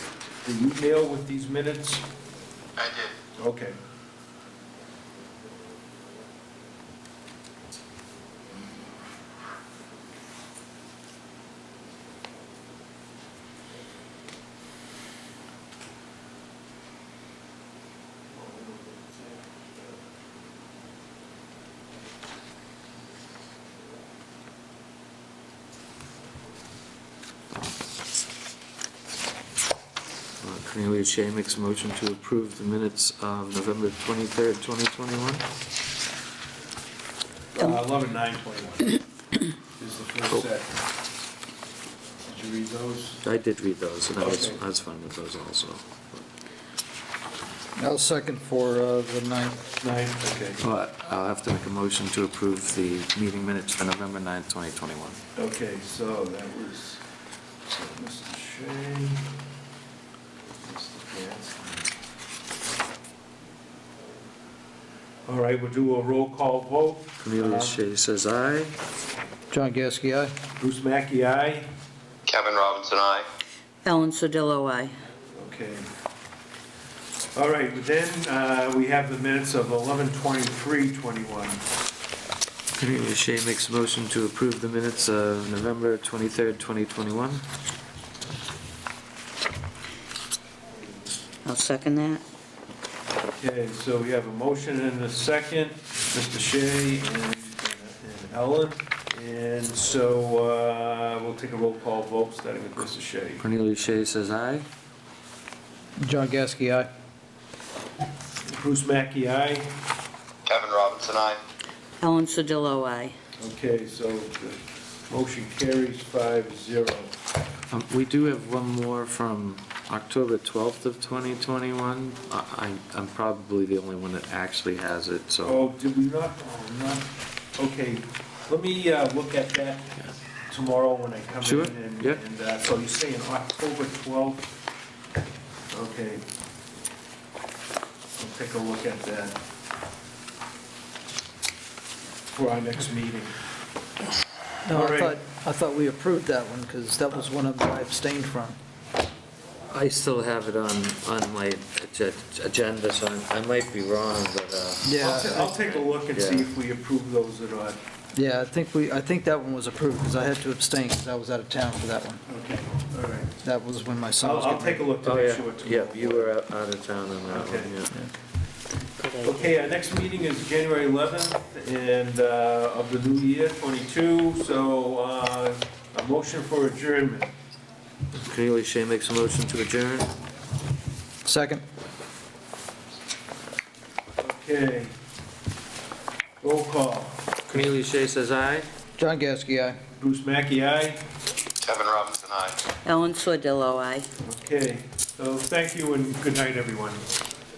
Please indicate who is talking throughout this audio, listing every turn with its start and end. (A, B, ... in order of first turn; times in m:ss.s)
0:00.4-0:02.0 A
0:02.8-0:03.1 B
0:03.4-0:03.8 A
0:30.4-0:35.4 C
0:37.6-0:39.0 A
0:39.8-0:40.7 A
0:42.2-0:43.2 A
0:43.2-0:46.2 C
0:44.2-0:44.6 A
0:47.8-0:49.6 D
0:49.8-0:50.6 A
0:50.6-0:55.2 C
0:55.4-0:57.0 A
0:57.6-0:59.2 A
1:00.6-1:01.9 A
1:05.2-1:07.8 A
1:07.2-1:08.7 C
1:09.5-1:10.3 D
1:10.6-1:11.7 A
1:12.3-1:13.2 B
1:13.8-1:14.9 E
1:15.4-1:15.9 A
1:17.3-1:21.6 A
1:22.8-1:27.4 C
1:31.4-1:32.2 E
1:33.3-1:43.4 A
1:43.4-1:44.7 C
1:46.0-1:46.9 D
1:48.4-1:49.7 A
1:50.5-1:51.4 B
1:52.0-1:53.2 E
1:53.4-1:57.1 A
1:57.7-2:05.6 C
2:05.4-2:10.0 A
2:10.5-2:14.5 A
2:11.4-2:12.2 C
2:15.7-2:16.2 A
2:18.2-2:19.4 A
2:22.3-2:23.4 A
2:24.6-2:28.6 D
2:24.7-2:25.2 A
2:29.7-2:34.9 C
2:34.8-2:35.7 D
2:35.0-2:37.8 A
2:36.1-2:36.5 C
2:38.2-2:42.2 D
2:42.3-2:43.4 A
2:43.4-2:44.9 D
2:44.2-2:46.4 A
2:45.0-2:48.0 C
2:47.3-2:47.7 A
2:49.2-2:57.3 A
2:58.1-3:00.1 C
3:01.2-3:01.6 D
3:04.2-3:04.9 A
3:06.4-3:07.2 A
3:07.5-3:08.7 C
3:09.0-3:09.8 D
3:10.0-3:11.0 A
3:11.6-3:12.6 B
3:12.8-3:14.1 E
3:14.2-3:17.0 A